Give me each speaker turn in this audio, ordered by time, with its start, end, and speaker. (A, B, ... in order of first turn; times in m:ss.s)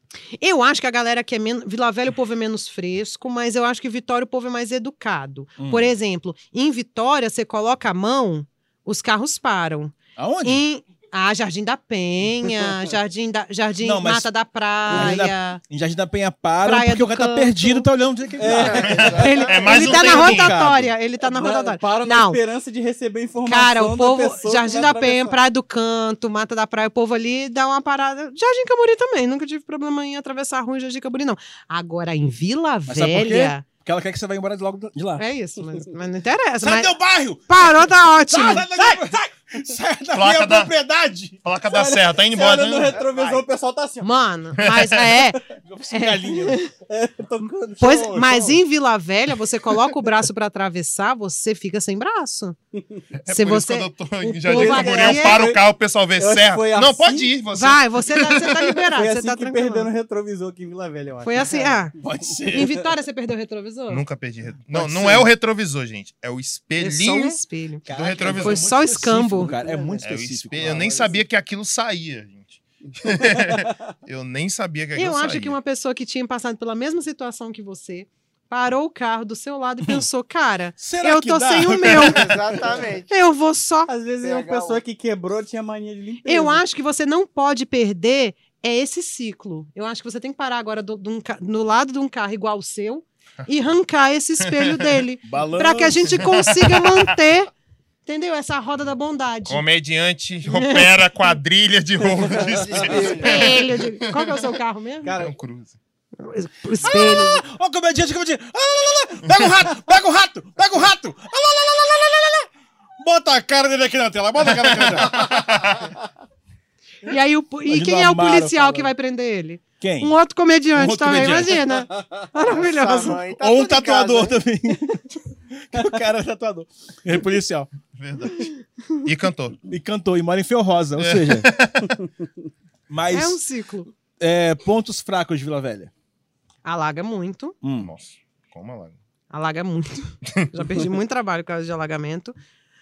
0:00.4-0:15.6 A
0:05.6-0:05.9 B
0:10.2-0:10.6 B
0:13.8-0:14.3 B
0:14.9-0:19.1 B
0:14.9-0:15.2 C
0:16.6-0:17.9 A
0:18.4-0:19.4 C
0:18.4-0:19.6 D
0:18.8-0:20.7 E
0:19.1-0:22.4 A
0:19.6-0:20.9 B
0:21.2-0:25.4 C
0:23.4-0:33.6 A
0:32.9-0:35.2 B
0:35.2-0:37.0 A
0:36.6-0:41.4 B
0:37.5-0:38.7 A
0:40.1-0:40.7 E
0:41.4-0:43.1 E
0:41.6-0:44.1 C
0:43.0-0:43.4 D
0:44.0-0:46.7 A
0:44.6-0:45.0 E
0:45.5-0:46.6 B
0:46.9-0:48.6 C
0:47.8-0:52.6 A
0:47.8-0:48.0 B
0:52.8-0:53.0 C
0:53.2-0:58.8 E
0:53.3-0:55.5 A
0:54.4-0:55.6 C
0:56.2-0:57.3 C
0:57.5-0:59.9 A
0:58.9-1:01.9 C
1:01.2-1:01.9 A
1:02.0-1:02.7 B
1:02.5-1:04.0 A
1:03.9-1:08.7 E
1:06.8-1:09.5 A
1:07.8-1:11.1 B
1:09.2-1:11.2 C
1:10.0-1:15.6 E
1:12.9-1:13.7 C
1:14.9-1:22.2 A
1:20.8-1:22.7 B
1:22.0-1:23.1 D
1:23.1-1:23.9 A
1:23.9-1:26.6 C
1:24.2-1:24.8 D
1:26.2-1:37.5 A
1:34.4-1:35.0 E
1:35.2-1:36.2 B
1:36.2-1:37.1 E
1:38.0-1:39.6 A
1:39.4-1:44.4 E
1:40.5-1:40.9 A
1:42.2-1:43.2 C
1:42.3-1:43.6 D
1:43.1-1:45.2 A
1:45.0-1:45.3 C
1:45.1-1:45.8 E
1:46.2-1:47.4 A
1:46.8-1:55.4 B
1:54.6-1:55.9 E
1:57.0-2:03.2 A
1:57.7-1:58.9 B
1:59.8-2:00.1 B
2:00.7-2:01.7 B
2:02.4-2:04.4 D
2:03.3-2:07.7 B
2:07.9-2:09.6 E
2:09.7-2:11.5 B
2:11.0-2:12.0 E
2:12.9-2:13.4 B
2:13.1-2:13.9 A
2:14.2-2:15.9 B
2:16.6-2:17.6 A
2:17.6-2:17.9 B
2:17.8-2:19.0 E
2:19.3-2:22.3 A